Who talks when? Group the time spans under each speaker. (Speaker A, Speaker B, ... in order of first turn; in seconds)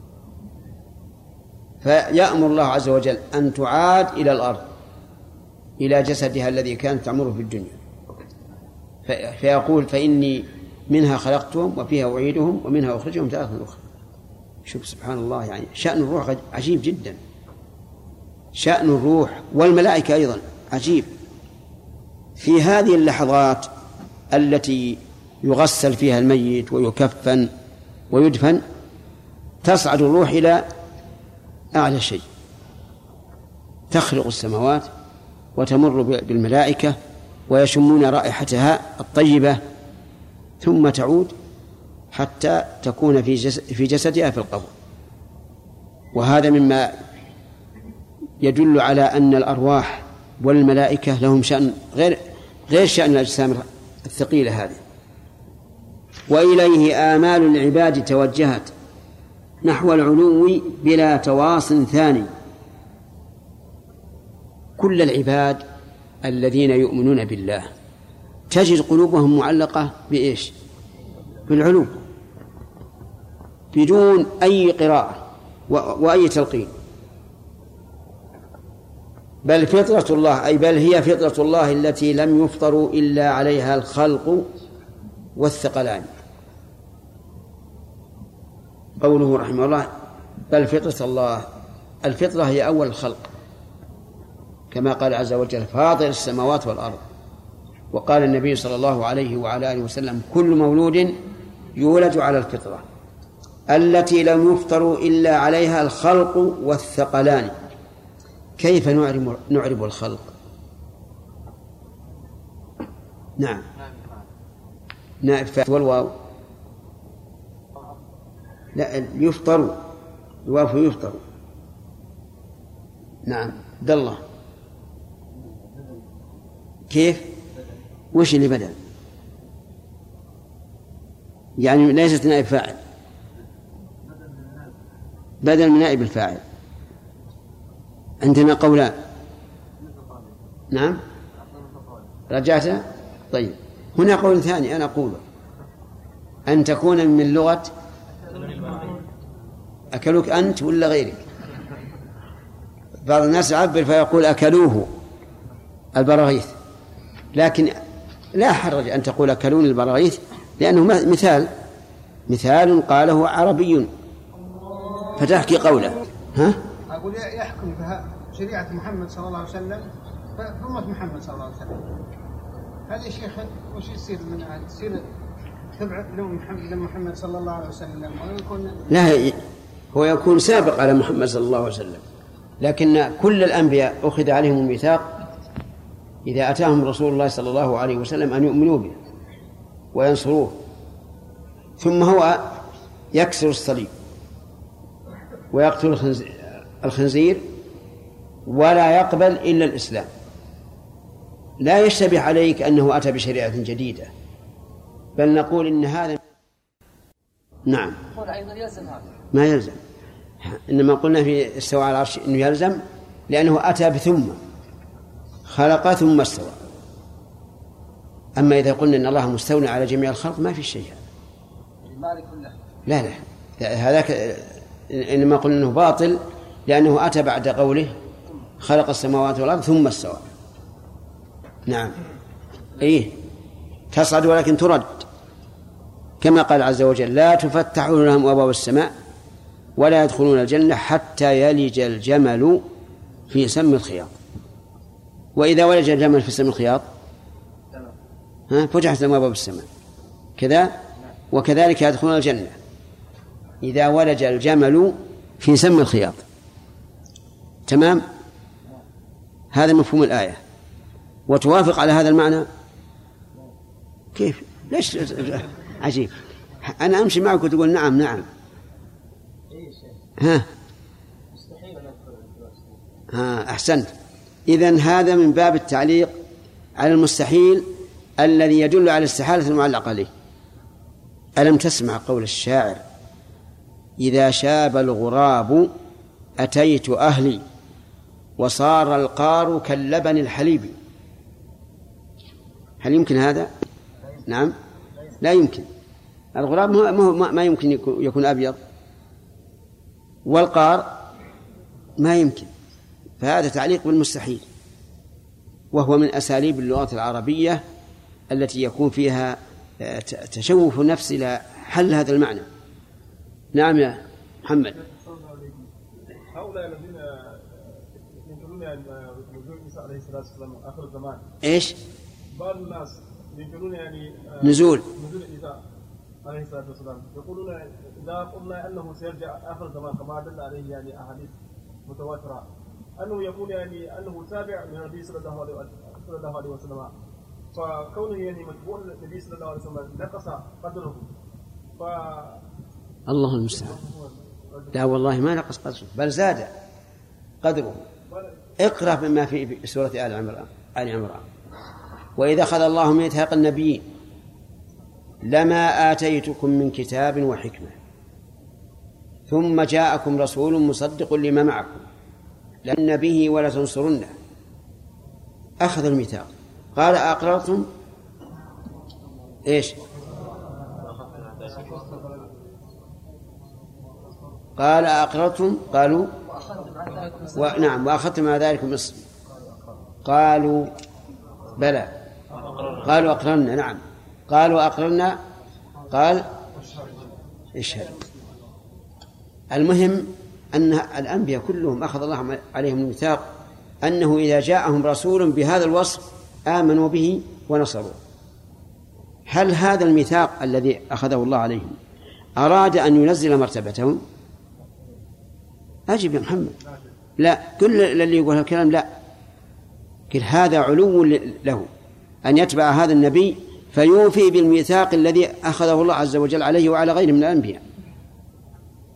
Speaker A: 1.8-4.6, 5.8-7.8, 9.1-13.8, 14.6-17.2, 18.5-21.1, 22.4-23.7, 24.3-27.5, 28.1-28.6, 29.6-30.6, 31.7-32.2, 33.9-34.9, 35.5-37.0, 37.5-39.6, 40.6-41.3, 42.1-44.7, 46.1-46.9, 48.4-54.8, 56.3-58.7, 59.6-62.3, 64.8-65.6, 66.2-67.7, 68.5-70.5, 71.5-72.0, 73.7-76.7, 79.4-84.5, 85.3-86.1, 89.0-89.9, 90.5-91.5, 92.0-93.3, 94.7-97.0, 97.9-101.2, 101.8-102.8, 103.7-107.5, 108.6-110.3, 113.4-113.7, 115.2-116.2, 118.7-119.9, 120.4-121.2, 123.2-124.2, 126.9-127.4, 128.1-128.8, 131.6-132.8, 135.4-136.4, 138.2-138.9, 140.7-141.0, 142.3-145.2, 146.5-147.7, 149.9-151.2, 153.0-154.9, 155.9-156.5, 157.3-157.7, 158.3-161.5, 162.3-163.9, 165.2-166.6, 178.9-179.4, 179.9-182.0, 182.6-185.2, 186.2-188.9, 189.9-190.6, 191.8-192.6, 193.1-193.9, 195.5-197.5, 198.5-200.1, 201.6-204.1, 205.2-206.2, 207.7-208.0, 209.3-209.8, 210.4-214.4, 215.4-216.6, 218.4-221.0, 222.8-227.9, 228.6-230.2, 231.7-232.0, 232.8-233.2, 233.9-235.1, 236.2-238.9, 239.8-242.6, 243.3-244.1, 245.3-246.8, 248.5-249.7, 250.4-250.7, 251.3-252.6, 253.6-256.2, 257.7-258.0, 259.5-260.4, 261.3-262.5, 264.1-266.1, 266.6-268.3, 270.2-270.5, 273.1-273.9, 274.5-276.1, 276.8-280.1, 281.4-282.8, 284.0-285.7, 286.4-287.4, 288.4-290.8, 292.8-293.5, 294.2-294.5, 295.2-295.7, 296.3-298.6, 300.2-300.9, 302.0-302.5, 303.2-304.4, 305.7-307.6, 308.3-312.5, 313.5-314.7, 321.4-321.8, 324.4-324.8, 343.1-343.8, 344.7-346.5, 347.4-347.8, 348.6-351.2, 352.2-353.8, 355.2-357.8, 359.3-361.8, 362.6-364.1, 365.6-367.7, 369.4-369.8, 374.6-376.2, 377.3-379.0, 380.0-380.7, 381.6-381.9, 382.8-385.2, 385.9-386.3, 387.5-387.9, 389.5-393.2, 393.8-398.0, 399.3-401.8, 402.4-404.0, 405.9-406.6, 407.2-408.9, 410.1-411.7, 412.2-417.6
Speaker B: 164.7-165.2, 166.9-172.0, 172.9-175.0, 175.8-178.8
Speaker C: 271.4-272.5, 314.8-315.6, 316.3-317.6, 318.2-321.2, 322.4-325.6, 326.2-331.3, 331.9-332.4, 333.0-336.9, 337.5-341.1, 341.8-342.4, 371.4-372.0